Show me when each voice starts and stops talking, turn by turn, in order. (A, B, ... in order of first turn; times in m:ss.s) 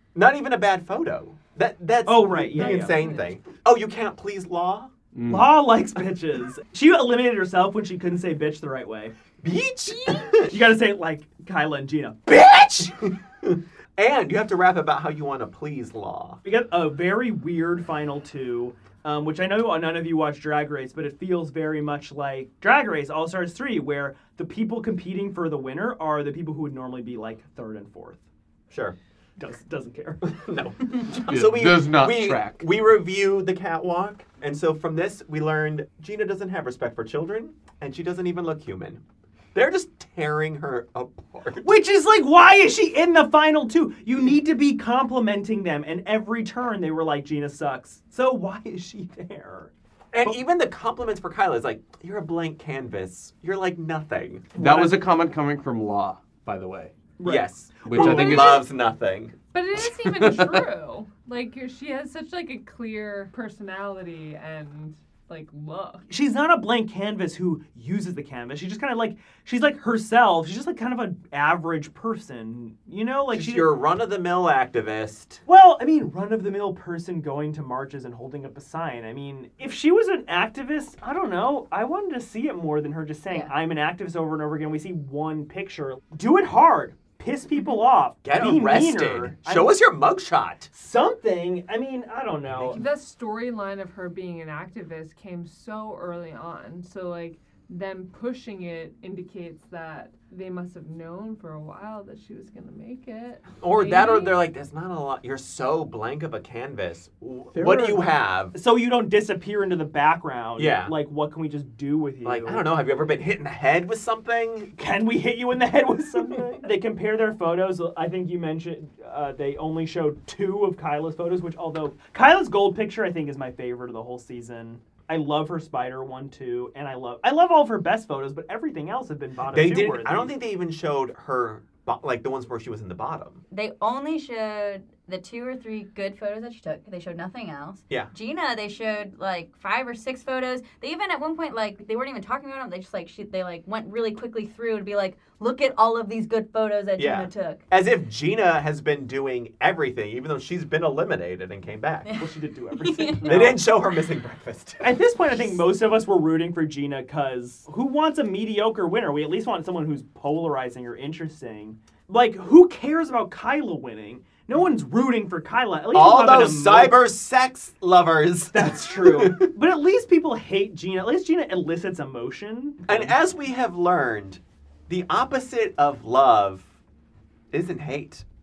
0:00.1-0:04.9 A
0:02.0-0:03.0 B
0:02.5-0:03.3 C
0:05.1-0:05.6 D
0:05.3-0:09.1 B
0:09.4-0:10.6 A
0:10.5-0:12.3 B
0:12.3-0:16.4 A
0:16.4-0:28.2 B
0:28.7-0:29.0 A
0:29.4-0:30.4 B
0:30.3-0:39.0 A
0:31.3-0:32.6 D
0:39.5-0:41.8 A
0:41.6-0:49.7 B
0:50.1-0:54.5 A
0:54.5-0:56.9 D
0:54.6-0:55.1 B
0:57.2-0:58.6 B
0:57.2-0:59.3 A
0:57.8-0:58.6 D
0:59.5-1:06.0 C
1:00.0-1:00.6 D
1:06.1-1:13.7 B
1:13.3-1:15.4 A
1:15.4-1:29.8 B
1:28.2-1:30.7 A
1:30.7-1:32.8 B
1:32.5-1:32.8 A
1:32.7-1:44.4 C
1:43.6-1:48.5 A
1:47.5-1:48.1 D
1:48.5-1:52.7 B
1:50.6-1:50.9 A
1:52.2-1:54.7 A
1:54.8-2:10.3 B
2:09.5-2:13.4 A
2:13.5-2:27.6 E
2:27.0-2:32.1 A
2:32.1-2:33.6 B
2:32.8-2:33.4 E
2:33.2-2:35.0 A
2:34.8-2:47.0 B
2:45.9-2:49.5 A
2:48.5-2:53.2 B
2:52.8-2:56.7 A
2:57.5-2:58.2 A